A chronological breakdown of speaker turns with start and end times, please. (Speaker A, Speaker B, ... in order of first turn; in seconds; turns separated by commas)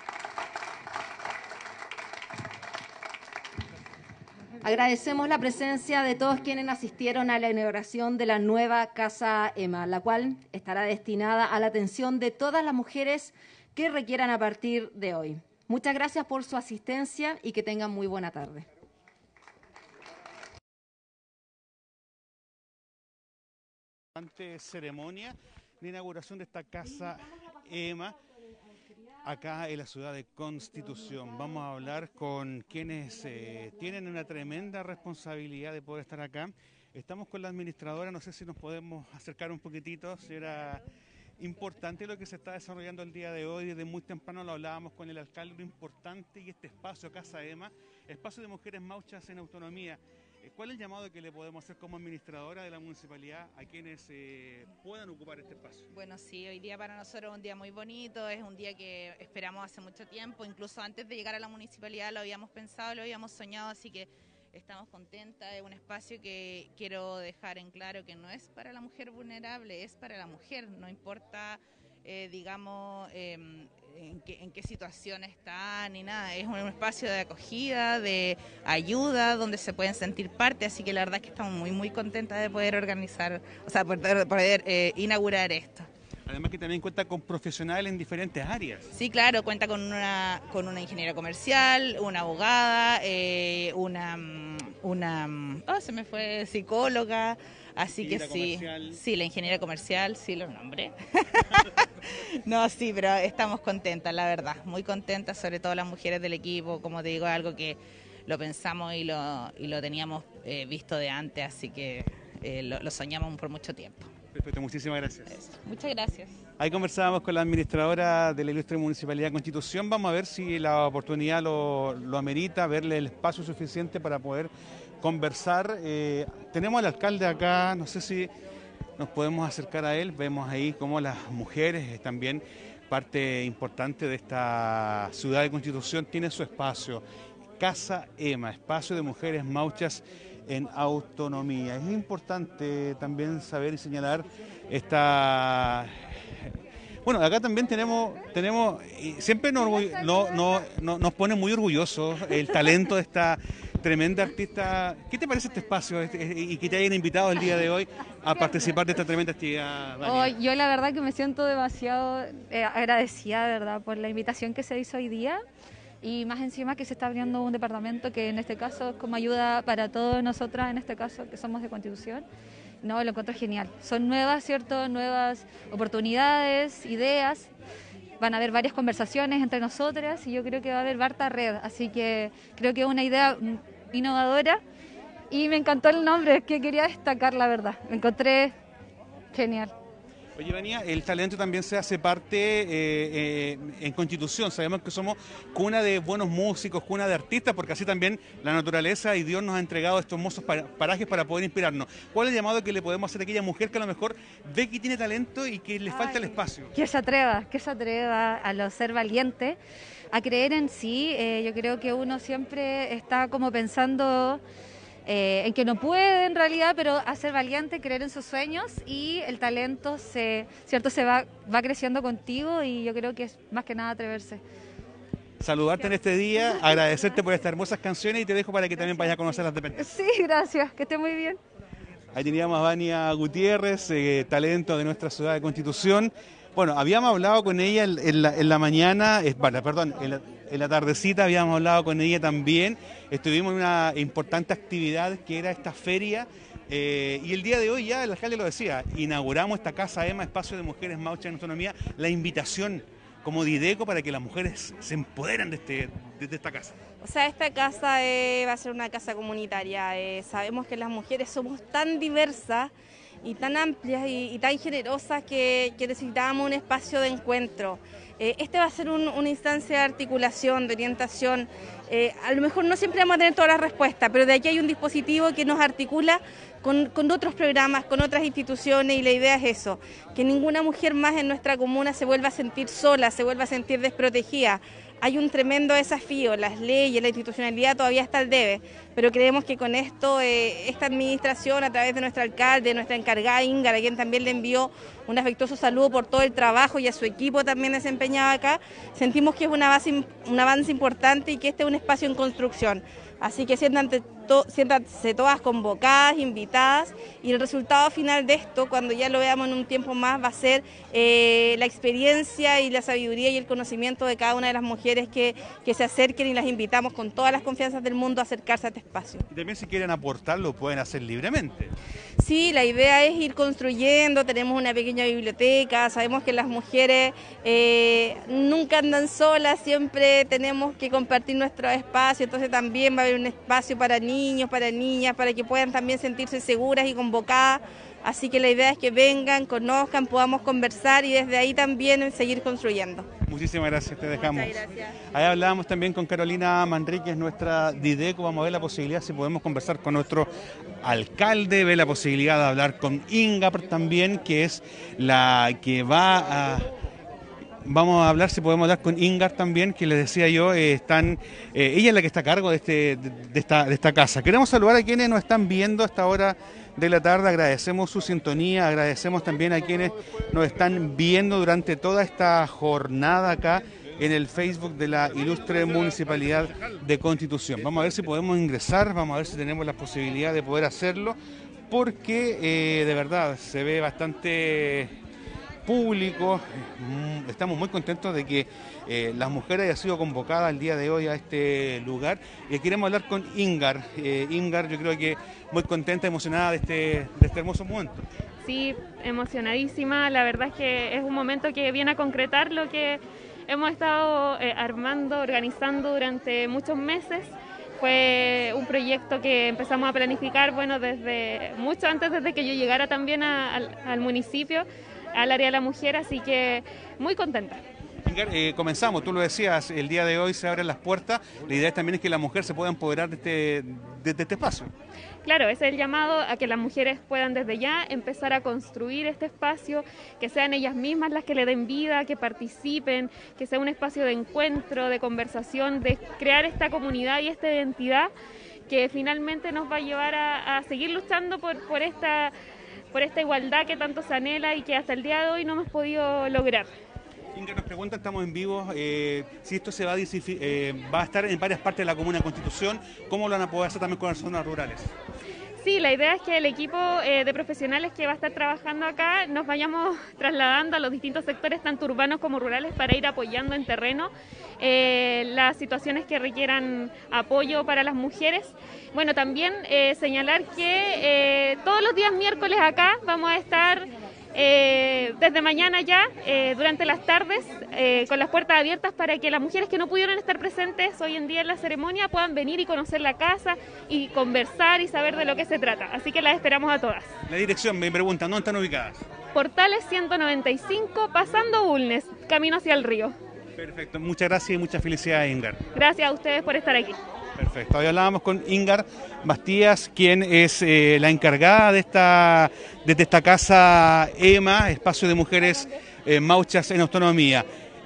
Speaker A: 4.6-18.7, Speaker B: 24.2-28.2, Speaker B: 29.2-40.8, Speaker B: 41.4-55.9, Speaker C: 55.9-85.9, Speaker B: 86.3-88.9, Speaker C: 88.9-101.8, Speaker B: 98.0-99.0, Speaker C: 102.5-114.1, Speaker B: 114.3-115.4, Speaker C: 115.3-116.3, Speaker B: 116.6-128.3, Speaker B: 129.0-137.0, Speaker B: 137.6-146.0, Speaker B: 147.1-160.3, Speaker D: 149.7-150.3, Speaker D: 160.0-165.4, Speaker D: 166.0-172.3, Speaker D: 172.8-177.5, Speaker D: 178.2-184.6, Speaker D: 185.3-188.6, Speaker D: 189.3-189.7, Speaker B: 190.4-206.7, Speaker D: 205.9-209.6, Speaker D: 210.1-214.4, Speaker D: 215.1-224.4, Speaker B: 225.4-229.9, Speaker D: 229.8-231.4, Speaker B: 232.1-256.8, Speaker E: 257.0-262.7, Speaker E: 263.2-319.2, Speaker B: 319.3-321.7, Speaker E: 322.2-343.1, Speaker B: 343.3-344.6, Speaker E: 344.2-344.9, Speaker B: 345.1-350.3, Speaker B: 350.8-356.7, Speaker B: 357.7-381.2, Speaker B: 381.7-384.9, Speaker B: 385.7-398.0, Speaker F: 398.4-417.6, Speaker B: 418.1-424.7, Speaker F: 425.2-438.1, Speaker F: 438.7-442.3, Speaker F: 442.9-446.7, Speaker B: 447.4-454.9, Speaker F: 455.6-487.1, Speaker B: 487.3-489.0, Speaker F: 489.4-493.1, Speaker B: 493.6-495.6, Speaker F: 495.8-497.0, Speaker B: 497.4-507.5